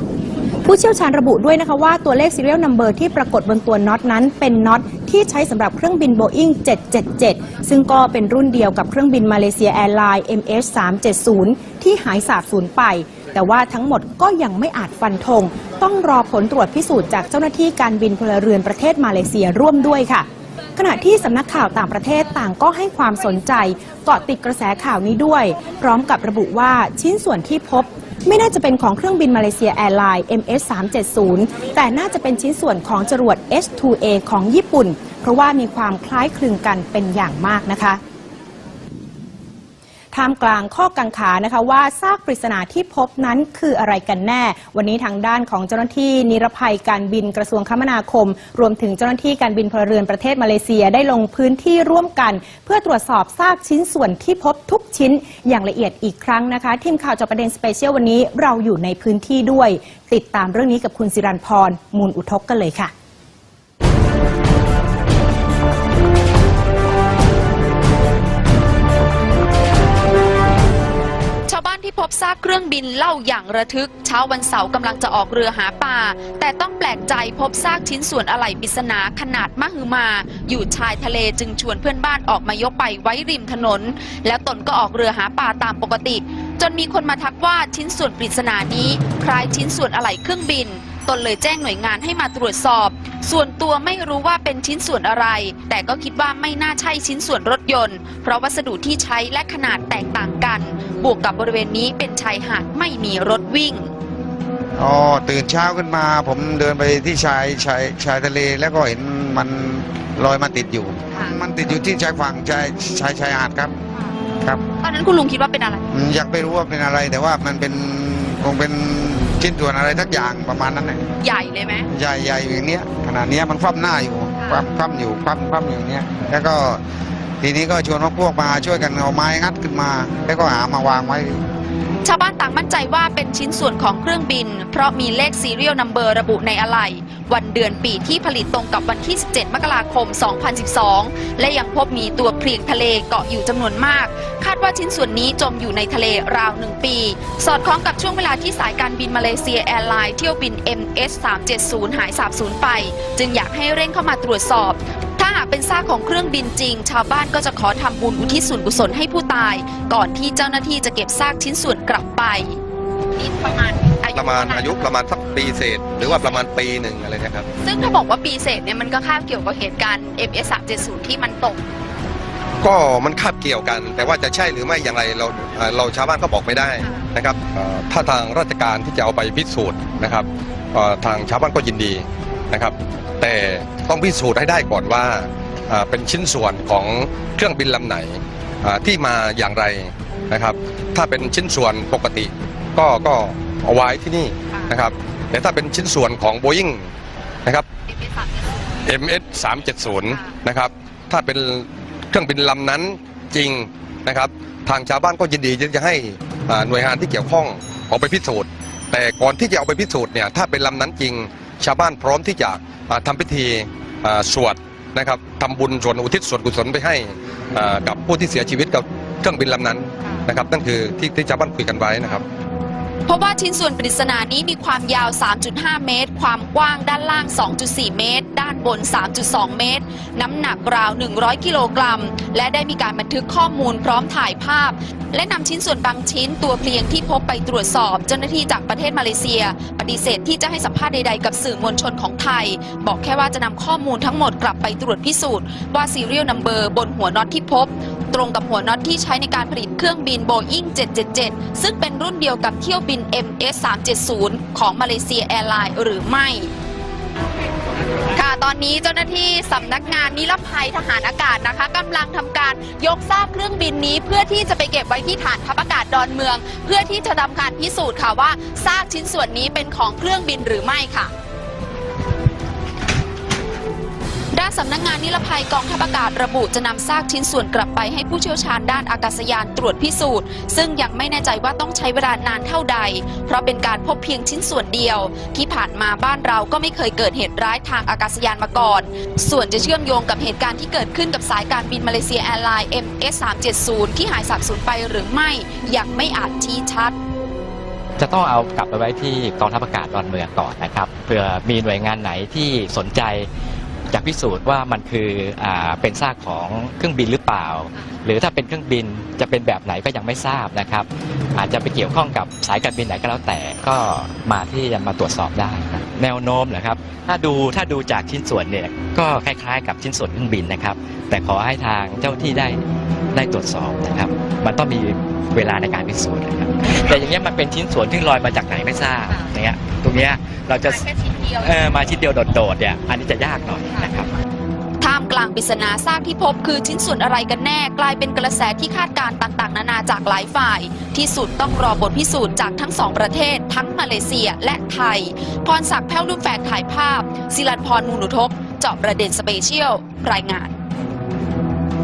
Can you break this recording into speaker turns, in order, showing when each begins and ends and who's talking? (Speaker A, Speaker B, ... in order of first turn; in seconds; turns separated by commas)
Speaker A: 0.7-38.0, Speaker A: 40.1-62.9, Speaker B: 71.5-103.9, Speaker C: 104.8-113.7, Speaker B: 111.1-111.8, Speaker B: 114.8-115.9, Speaker C: 115.9-121.0, Speaker B: 121.2-121.9, Speaker C: 121.9-126.8, Speaker B: 124.4-124.7, Speaker C: 127.4-131.4, Speaker B: 132.0-162.6, Speaker B: 163.2-164.9, Speaker D: 164.1-167.5, Speaker B: 166.0-166.4, Speaker B: 167.6-171.6, Speaker D: 172.6-196.9, Speaker B: 197.9-198.5, Speaker D: 198.8-222.2, Speaker B: 200.1-200.4, Speaker B: 223.1-256.5, Speaker B: 258.1-271.1, Speaker B: 274.3-296.9, Speaker E: 298.0-303.3, Speaker E: 303.9-322.6, Speaker E: 323.1-330.8, Speaker B: 330.6-331.5, Speaker E: 331.4-334.1, Speaker B: 334.8-350.5